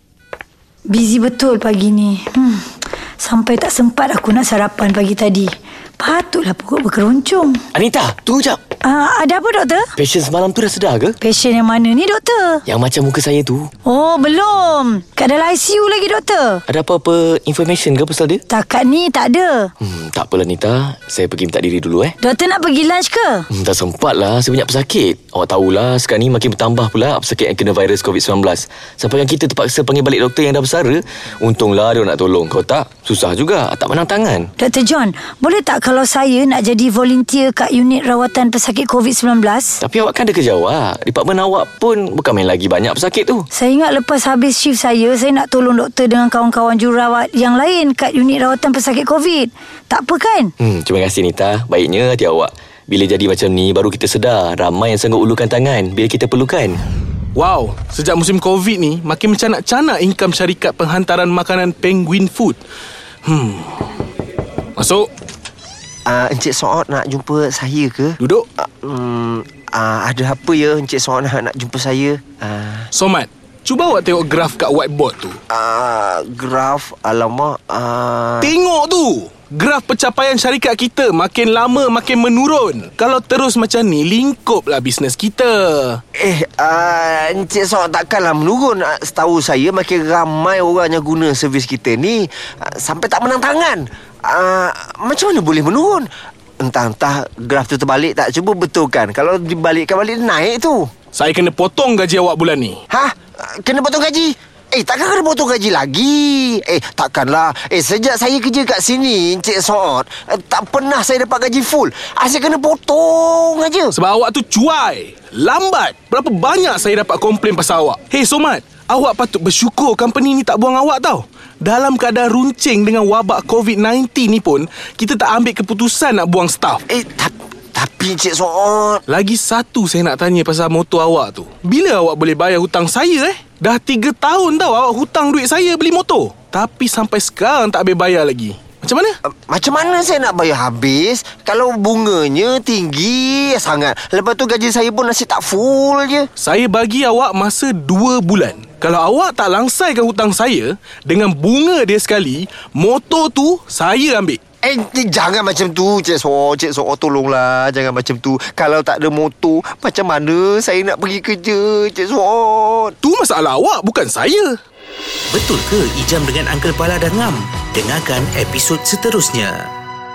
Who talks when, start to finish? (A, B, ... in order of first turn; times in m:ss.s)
0:00.9-0:07.6 A
0:07.7-0:08.6 B
0:08.8-0:09.9 A
0:10.0-0:11.2 B
0:11.2-0:12.6 A
0:12.7-0:13.7 B
0:13.8-0:16.6 A
0:16.7-0:18.4 B
0:18.5-0:19.7 A
0:19.8-0:22.2 B
0:22.2-0:23.5 A
0:23.5-0:34.5 B
0:34.6-0:39.8 A
0:39.8-0:43.5 B
0:43.5-0:50.5 A
0:50.6-0:56.8 B
0:57.4-1:02.6 C
1:03.2-1:03.8 C
1:04.8-1:05.1 C
1:06.1-1:12.9 D
1:08.2-1:08.4 C
1:12.9-1:15.4 C
1:15.5-1:18.5 D
1:18.4-1:26.0 C
1:26.2-1:36.1 D
1:36.6-1:40.9 D
1:41.1-1:42.8 C
1:42.9-1:54.0 D
1:53.9-2:06.8 C
2:06.9-2:09.0 D
2:09.1-2:19.2 C
2:19.3-2:26.3 D
2:26.4-2:34.4 C
2:34.6-2:43.0 D
2:43.0-2:44.6 C
2:45.3-2:49.7 E